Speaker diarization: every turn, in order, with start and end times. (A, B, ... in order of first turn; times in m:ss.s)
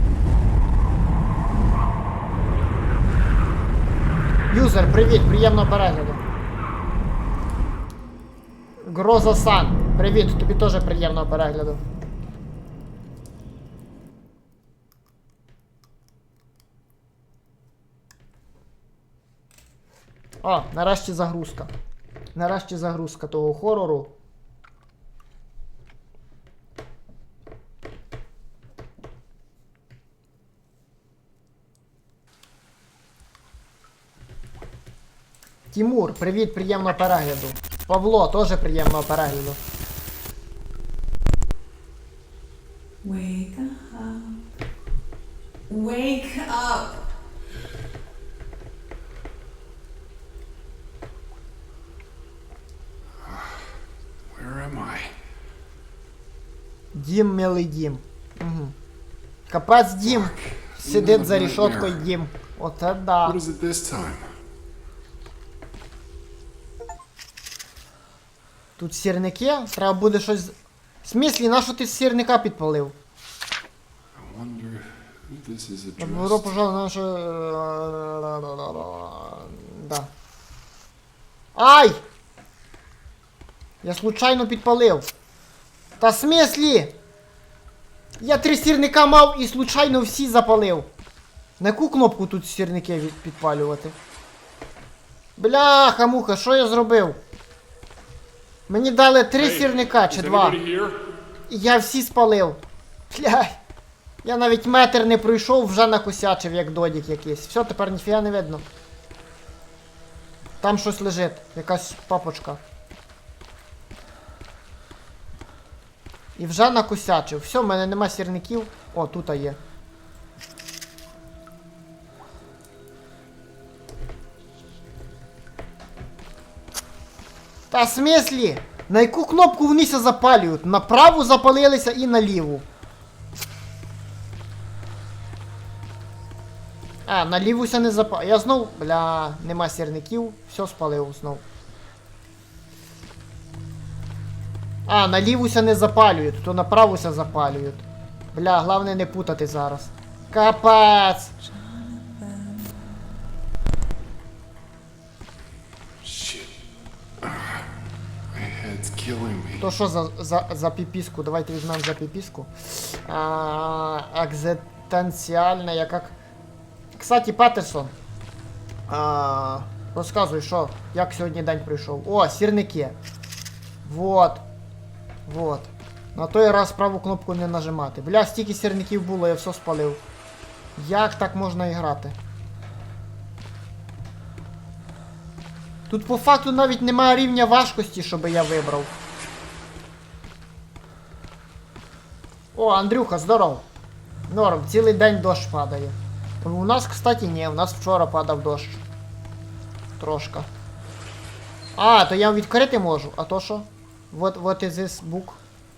0:04.5-0:06.2 A
0:08.8-0:11.8 A
0:20.4-0:21.7 A
0:22.3-0:24.1 A
0:35.7-0:39.6 A
0:43.0-0:44.4 B
0:45.7-0:47.0 B
0:53.2-0:53.8 C
0:54.3-0:55.2 C
0:56.9-0:58.7 A
0:59.5-1:03.4 A
1:00.0-1:02.1 C
1:03.2-1:04.3 C
1:08.8-1:12.9 A
1:14.1-1:16.5 C
1:16.0-1:20.1 A
1:21.5-1:22.0 A
1:23.8-1:25.1 A
1:26.0-1:27.0 A
1:28.2-1:30.9 A
1:31.6-1:34.0 A
1:35.4-1:37.2 A
1:38.7-1:40.6 A
1:39.6-1:41.0 C
1:41.5-1:43.6 A
1:44.2-1:48.6 A
1:50.6-1:52.6 A
1:56.4-1:59.6 A
2:07.7-2:12.6 A
2:17.0-2:21.4 A
2:24.9-2:31.3 A
2:31.5-2:32.7 B
2:36.0-2:36.5 C
2:37.2-2:37.7 C
2:38.3-2:39.7 C
2:39.6-2:46.1 A
2:46.9-2:47.9 A
2:48.9-2:53.0 A
2:53.8-2:54.4 A
2:55.3-3:00.0 A
3:00.8-3:02.2 A
3:05.9-3:08.9 A
3:12.5-3:13.6 A
3:14.3-3:18.8 A
3:20.0-3:20.5 A
3:21.8-3:25.4 A